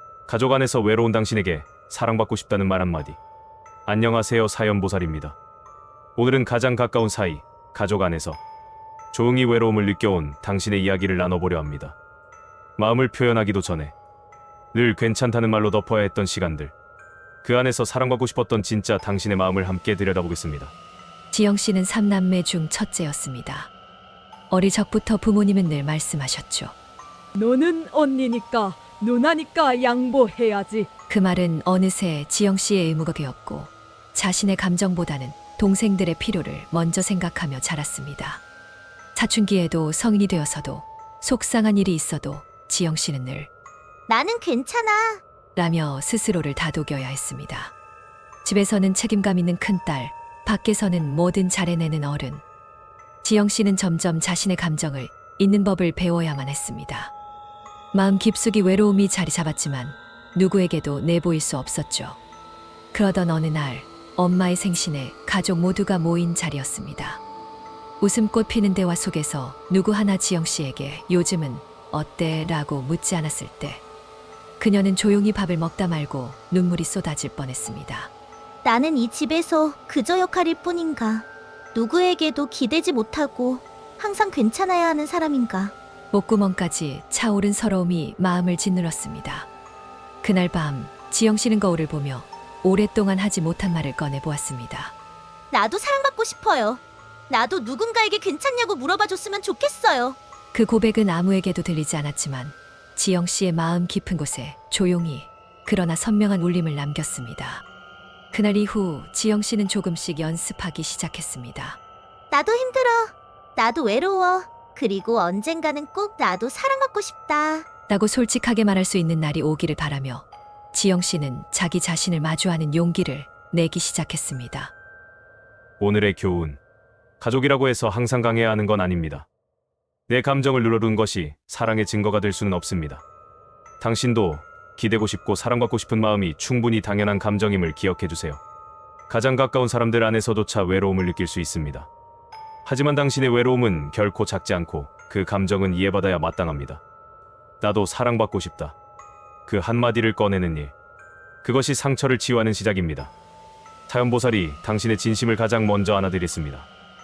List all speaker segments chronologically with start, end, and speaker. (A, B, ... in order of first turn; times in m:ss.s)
0:00.3-0:03.2 A
0:03.8-0:05.4 A
0:06.2-0:08.4 A
0:09.1-0:12.0 A
0:12.8-0:13.9 A
0:14.7-0:16.7 A
0:17.4-0:20.7 A
0:21.3-0:23.7 B
0:24.5-0:26.7 B
0:27.4-0:30.9 C
0:31.1-0:38.4 B
0:39.1-0:43.5 B
0:44.1-0:45.2 D
0:45.6-0:47.7 B
0:48.4-0:52.4 B
0:53.2-0:57.1 B
0:57.9-1:02.2 B
1:02.9-1:07.2 B
1:08.0-1:13.8 B
1:14.6-1:18.1 B
1:18.6-1:25.7 D
1:26.1-1:29.5 B
1:30.2-1:34.9 B
1:35.5-1:40.2 D
1:40.5-1:47.6 B
1:48.3-1:51.8 B
1:52.3-1:57.6 D
1:57.9-2:04.7 B
2:05.8-2:06.6 A
2:07.2-2:09.3 A
2:10.1-2:13.0 A
2:13.8-2:18.4 A
2:19.1-2:21.9 A
2:22.6-2:26.8 A
2:27.6-2:28.8 A
2:29.5-2:30.7 A
2:31.4-2:33.1 A
2:33.9-2:36.7 A